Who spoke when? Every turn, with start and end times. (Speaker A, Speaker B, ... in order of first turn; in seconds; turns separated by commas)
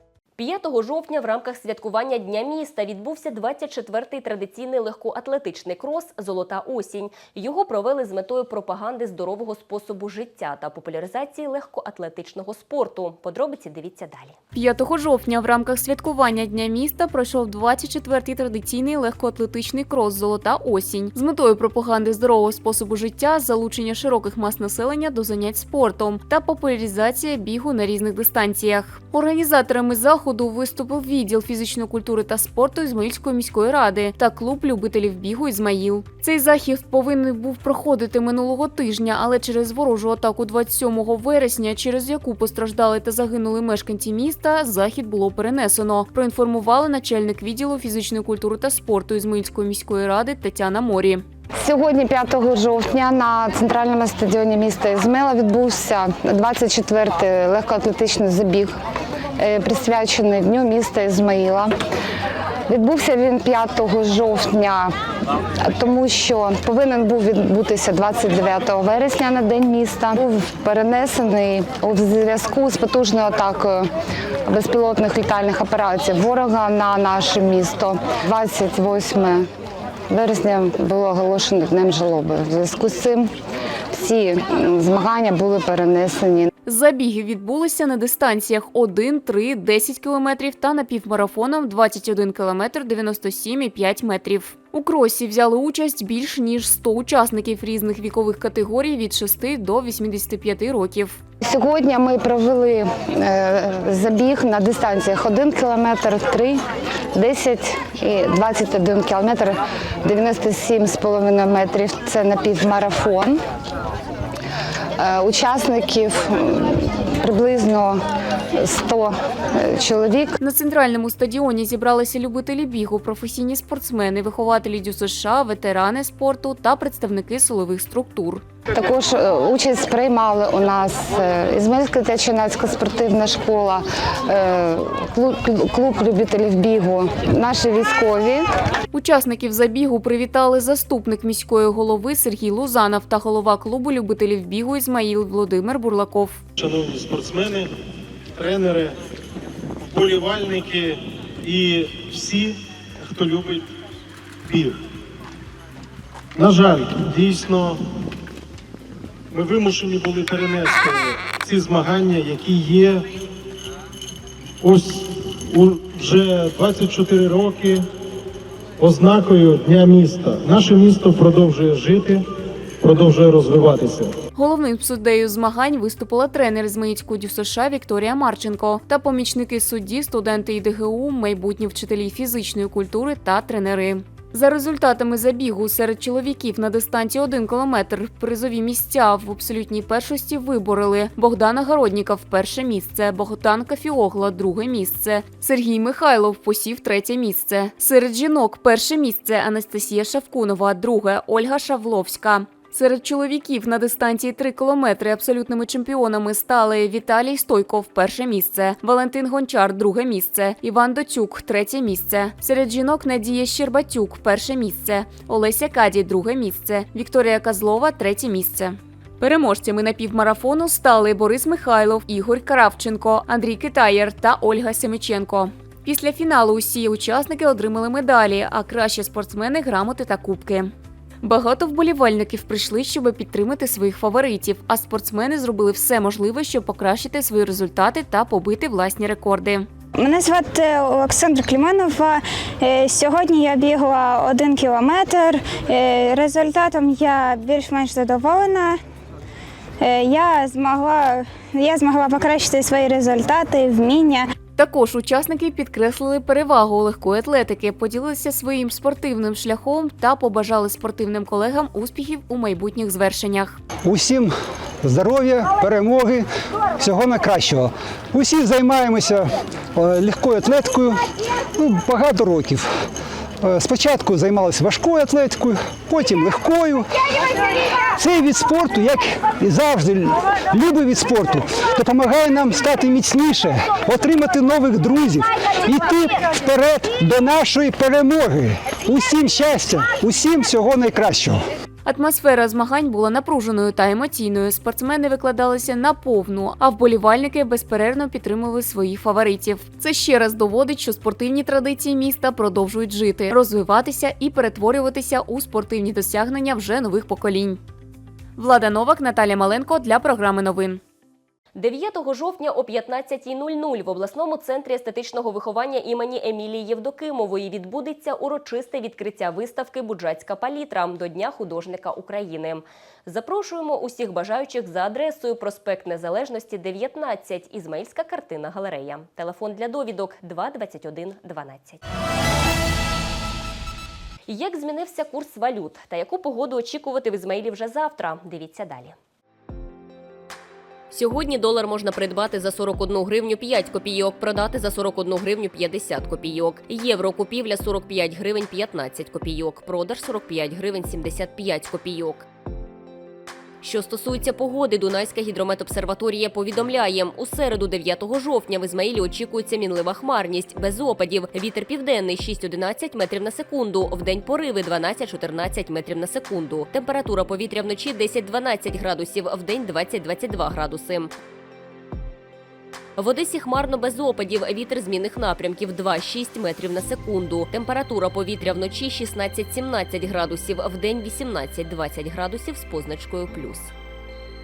Speaker A: 0.4-14.4, Speaker B: 14.5-51.2, Speaker C: 51.6-58.7, Speaker C: 59.4-61.7, Speaker C: 62.7-64.9, Speaker C: 65.6-73.9, Speaker C: 74.5-79.5, Speaker C: 80.1-83.3, Speaker C: 83.9-86.5, Speaker B: 86.7-101.2, Speaker C: 101.4-106.6, Speaker C: 107.1-113.4, Speaker C: 115.0-118.0, Speaker C: 118.6-120.3, Speaker B: 120.4-128.4, Speaker C: 128.7-138.4, Speaker B: 138.9-146.4, Speaker D: 146.6-147.7, Speaker D: 148.3-149.0, Speaker D: 149.8-153.7, Speaker D: 154.5-154.8, Speaker D: 156.3-157.8, Speaker D: 159.3-163.0, Speaker D: 164.6-167.8, Speaker D: 168.8-172.2, Speaker D: 172.8-174.2, Speaker B: 174.3-230.7, Speaker B: 231.2-239.7, Speaker E: 240.0-248.8, Speaker E: 249.8-254.3, Speaker B: 254.6-263.6, Speaker F: 263.9-264.3, Speaker F: 264.8-266.2, Speaker F: 266.8-269.2, Speaker F: 269.8-270.9, Speaker F: 271.6-272.6, Speaker F: 273.4-276.8, Speaker F: 278.0-291.4, Speaker B: 291.9-307.6, Speaker B: 308.4-310.8, Speaker A: 311.6-331.8, Speaker A: 334.3-338.9, Speaker A: 340.9-352.3, Speaker A: 353.6-371.1, Speaker A: 373.0-383.7